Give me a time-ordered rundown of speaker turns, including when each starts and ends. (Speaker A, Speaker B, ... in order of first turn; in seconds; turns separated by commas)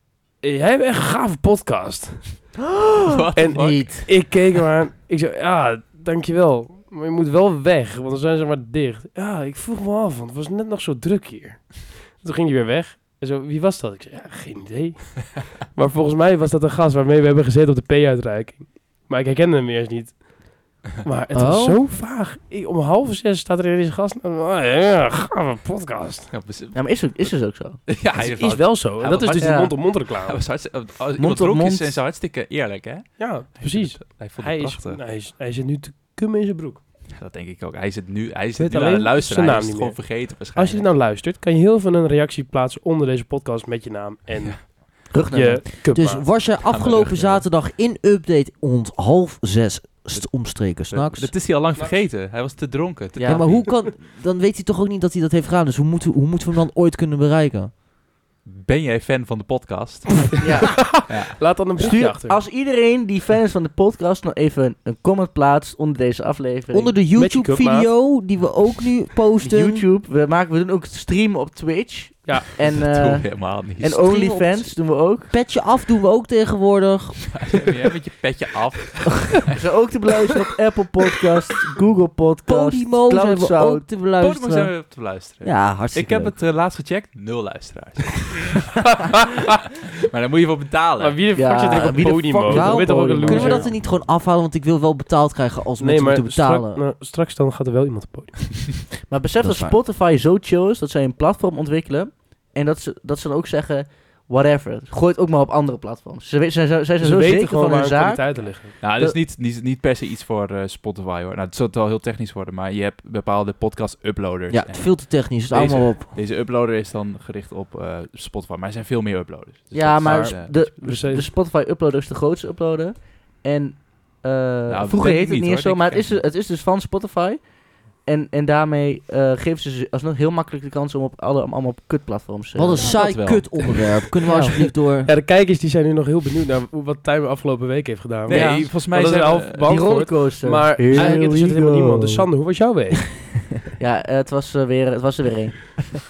Speaker A: 0.4-2.5, Speaker B: 3.0-4.2, Speaker A: 3.4-26.3, Speaker C: 3.5-4.1, Speaker C: 21.3-21.8, Speaker B: 26.3-27.3, Speaker D: 26.7-27.8, Speaker B: 27.9-35.0, Speaker A: 28.1-30.4, Speaker D: 29.4-29.8, Speaker D: 31.2-32.0, Speaker A: 33.2-36.8, Speaker B: 37.1-40.9, Speaker A: 38.6-46.3, Speaker D: 45.1-45.6, Speaker C: 45.9-51.4, Speaker B: 46.6-47.5, Speaker B: 50.9-53.7, Speaker D: 53.2-53.5, Speaker C: 53.3-57.7, Speaker B: 58.5-60.4, Speaker D: 60.4-61.1, Speaker A: 60.8-62.4, Speaker B: 61.1-61.4, Speaker D: 61.8-67.0, Speaker C: 66.7-69.8, Speaker A: 67.2-67.9, Speaker D: 69.4-75.3, Speaker B: 72.6-74.0, Speaker C: 73.8-77.6, Speaker B: 77.3-79.5, Speaker D: 79.5-83.8, Speaker C: 82.5-84.9, Speaker B: 84.2-89.3, Speaker C: 85.4-86.4, Speaker B: 90.0-91.2, Speaker A: 91.0-93.7, Speaker D: 91.3-93.7, Speaker C: 92.5-96.8, Speaker A: 95.8-98.8, Speaker D: 99.1-109.2, Speaker C: 99.4-99.8, Speaker A: 107.0-108.8, Speaker B: 108.8-120.7, Speaker C: 114.5-116.1, Speaker D: 119.7-133.0, Speaker C: 120.0-120.3, Speaker A: 120.5-121.3, Speaker B: 124.7-126.2, Speaker C: 132.6-135.1, Speaker B: 132.8-133.8, Speaker D: 134.3-134.6, Speaker A: 134.4-143.4, Speaker D: 138.3-138.7, Speaker B: 138.3-139.7, Speaker D: 139.7-142.3, Speaker D: 143.8-145.9